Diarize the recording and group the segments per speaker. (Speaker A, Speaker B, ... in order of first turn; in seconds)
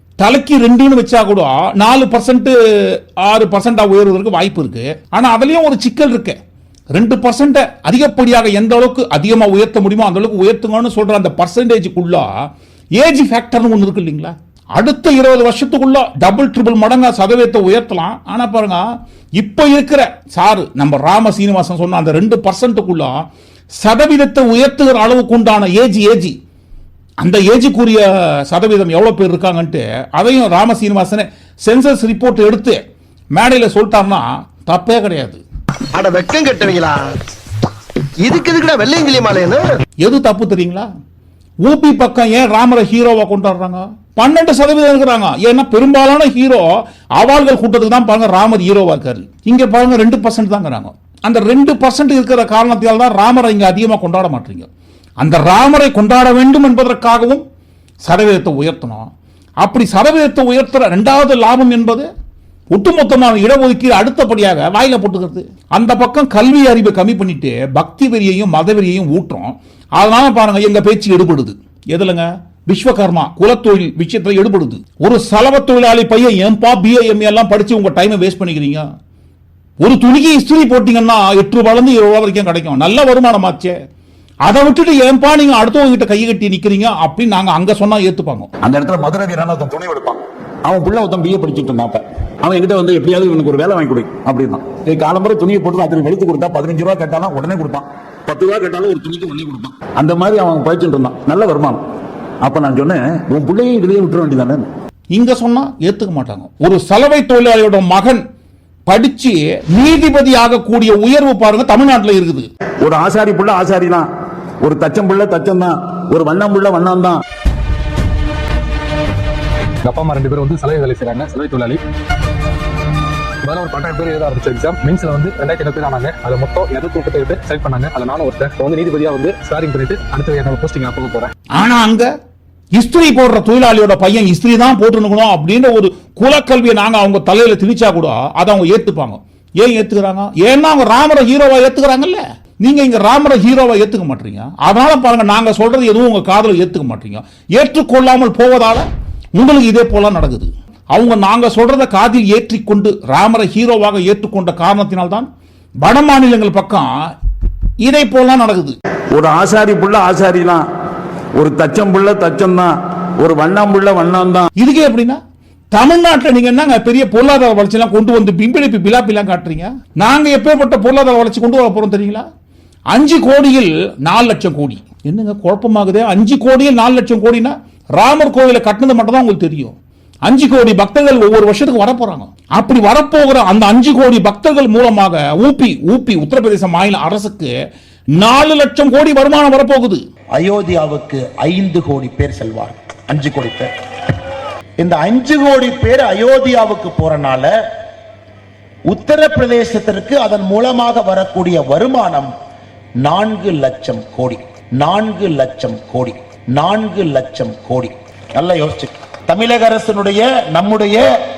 Speaker A: 0.2-6.4, 6.9-12.3, 13.0-18.9, 19.4-23.1, 23.8-26.4, 27.2-32.8, 33.4-35.4, 40.0-40.9, 41.6-46.7, 47.2-54.7, 55.2-57.4, 58.0-59.1, 59.6-62.1, 62.7-78.8, 79.8-83.7, 84.5-88.5, 105.1-108.2, 108.9-112.5, 131.6-132.1, 132.8-155.3, 155.8-156.9, 157.8-158.8, 164.6-165.2, 165.7-172.2, 172.9-179.8, 180.3-187.5, 188.2-190.0
Speaker B: 35.9-37.0, 38.2-39.6
Speaker C: 88.6-101.8, 102.4-104.7, 112.8-114.1, 114.6-117.2, 159.1-160.7, 161.4-164.5
Speaker D: 119.8-121.8, 123.4-131.3
Speaker E: 190.3-193.7, 194.8-197.5, 198.9-202.3, 203.0-211.1